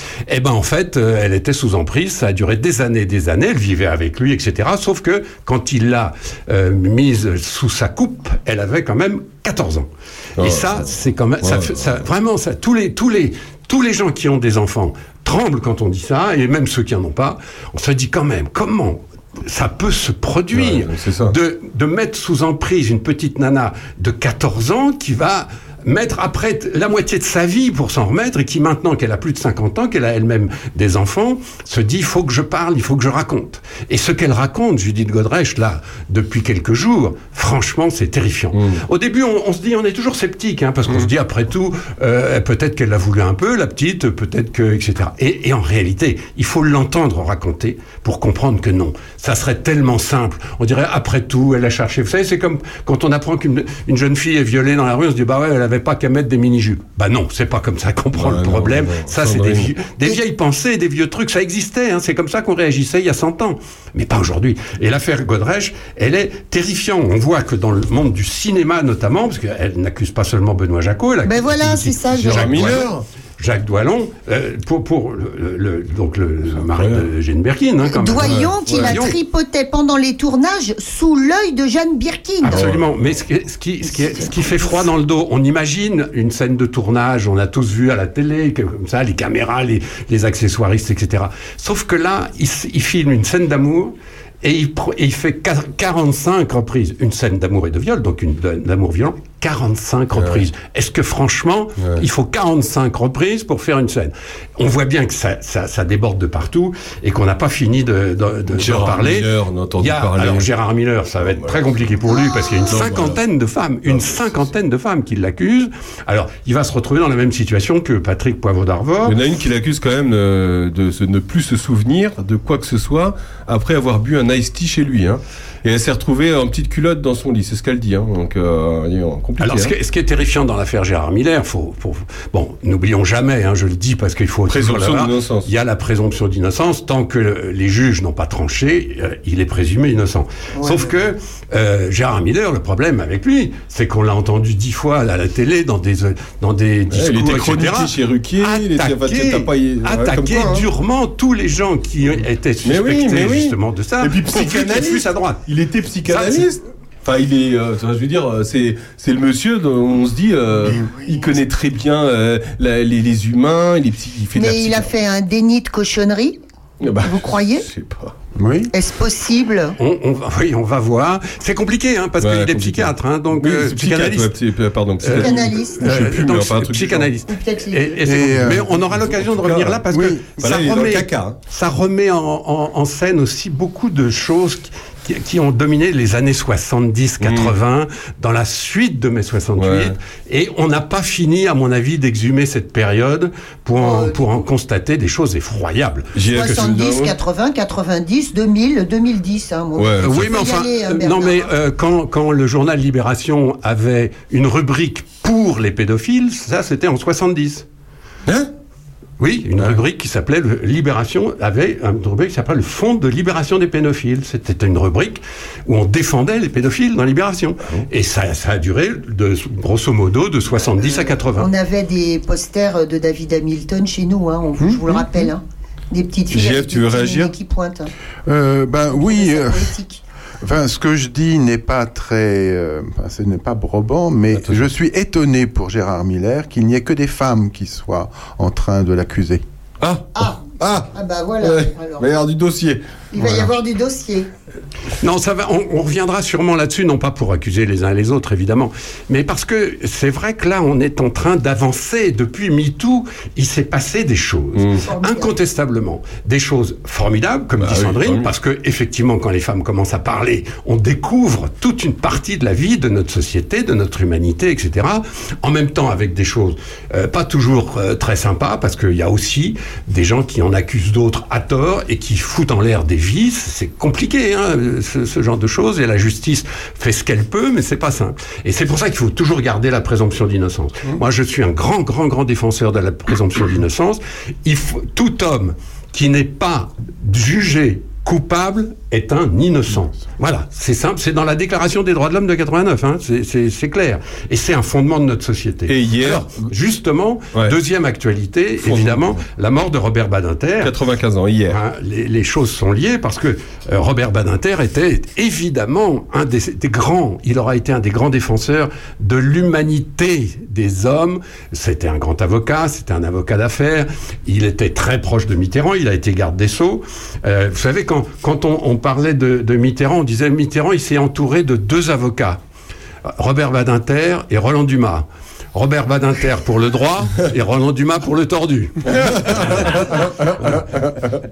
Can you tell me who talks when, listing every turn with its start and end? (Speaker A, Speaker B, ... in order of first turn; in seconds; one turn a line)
Speaker A: 0.3-79.1
Speaker B: 10.4-12.0
Speaker B: 20.5-21.3
Speaker B: 38.5-38.8
Speaker B: 58.1-59.7
Speaker C: 71.2-72.7
Speaker B: 72.1-73.0
Speaker B: 76.5-77.0
Speaker C: 77.8-82.7
Speaker B: 78.2-78.9
Speaker A: 82.4-119.2
Speaker B: 82.5-82.8
Speaker C: 83.8-84.9
Speaker B: 100.2-100.4
Speaker B: 101.8-102.0
Speaker B: 108.5-110.5
Speaker B: 111.2-111.6
Speaker C: 112.0-112.7
Speaker B: 112.7-113.2
Speaker B: 113.9-114.5
Speaker B: 119.0-129.7
Speaker A: 129.4-155.4
Speaker B: 134.5-135.5
Speaker C: 140.5-141.0
Speaker B: 146.9-150.7
Speaker B: 152.6-164.9
Speaker A: 156.1-156.5
Speaker D: 160.6-160.9
Speaker C: 164.3-166.4
Speaker B: 166.8-168.1
Speaker C: 167.0-167.7
Speaker D: 168.3-168.7
Speaker C: 168.7-169.8
Speaker A: 169.8-174.3
Speaker B: 172.2-177.1
Speaker A: 175.0-196.8
Speaker C: 175.2-175.9
Speaker C: 177.3-178.3
Speaker D: 178.0-178.8
Speaker B: 179.0-179.8
Speaker D: 179.9-180.7
Speaker B: 180.4-181.4
Speaker B: 187.2-187.5
Speaker B: 189.6-189.9
Speaker C: 193.7-194.3
Speaker B: 196.2-197.1
Speaker C: 196.3-201.5
Speaker B: 199.8-200.3
Speaker A: 200.0-207.6
Speaker A: 209.2-221.5
Speaker C: 220.5-227.9
Speaker D: 224.6-225.1
Speaker B: 226.3-227.3
Speaker D: 228.2-229.7
Speaker C: 228.9-230.0
Speaker D: 230.4-239.4
Speaker B: 234.3-234.6
Speaker B: 239.8-243.5
Speaker C: 240.1-242.1
Speaker C: 243.1-244.3
Speaker A: 245.0-300.7
Speaker B: 254.6-254.8
Speaker C: 254.8-255.4
Speaker B: 257.6-258.3
Speaker B: 295.7-296.5
Speaker B: 298.6-299.2
Speaker B: 300.6-301.6
Speaker A: 301.5-322.4
Speaker A: 323.1-330.6
Speaker B: 328.9-331.1